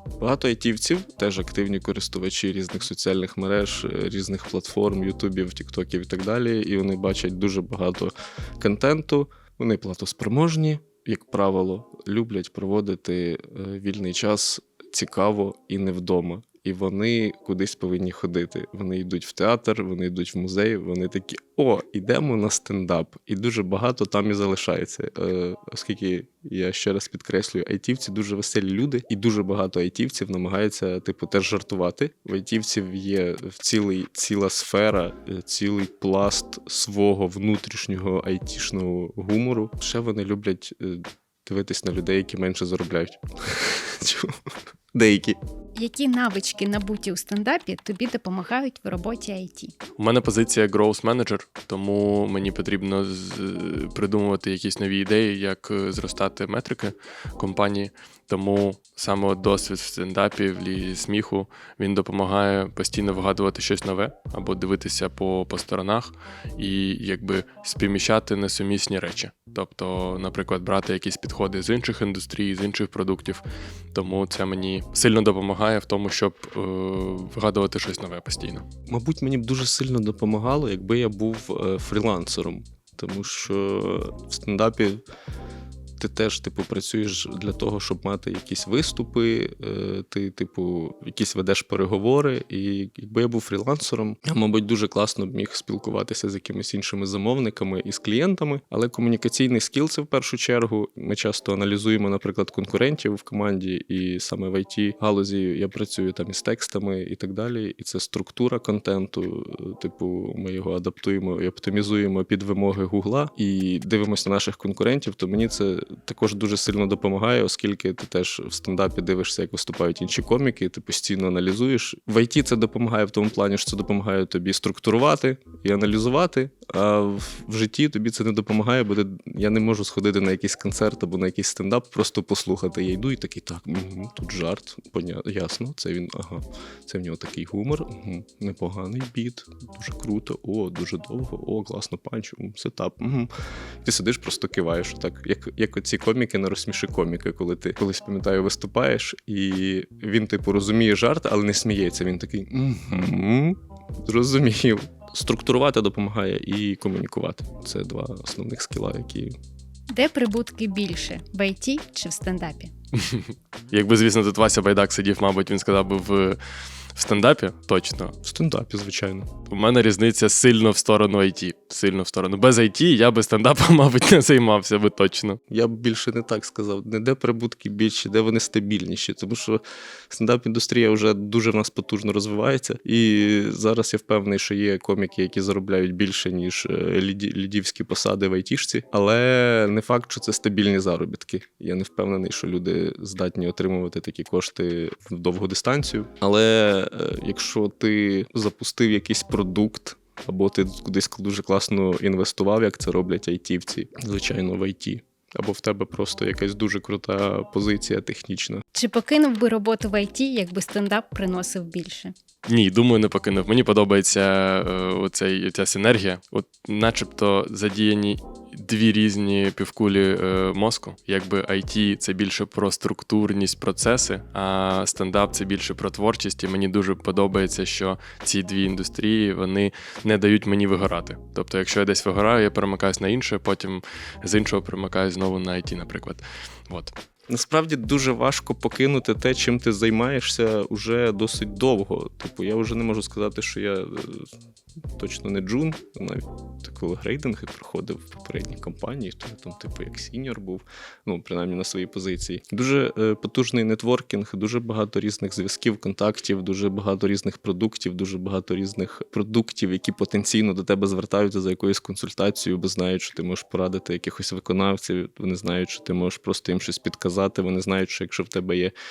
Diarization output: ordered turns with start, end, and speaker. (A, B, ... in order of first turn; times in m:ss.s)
0:00.2-0:44.4 A
0:44.9-0:45.4 A
0:45.8-0:49.7 B
0:50.0-1:13.4 C
1:13.9-1:18.6 C
1:18.9-1:25.0 A
1:26.0-2:23.3 A
2:23.8-2:39.3 A
2:39.9-2:42.7 B
2:42.9-2:46.4 C
2:46.9-2:48.2 C
2:48.2-2:49.3 A
2:49.5-2:55.4 C
2:55.5-3:28.6 A
3:28.7-3:32.1 B
3:32.4-3:56.9 C
3:57.3-4:04.3 A
4:05.0-4:28.7 A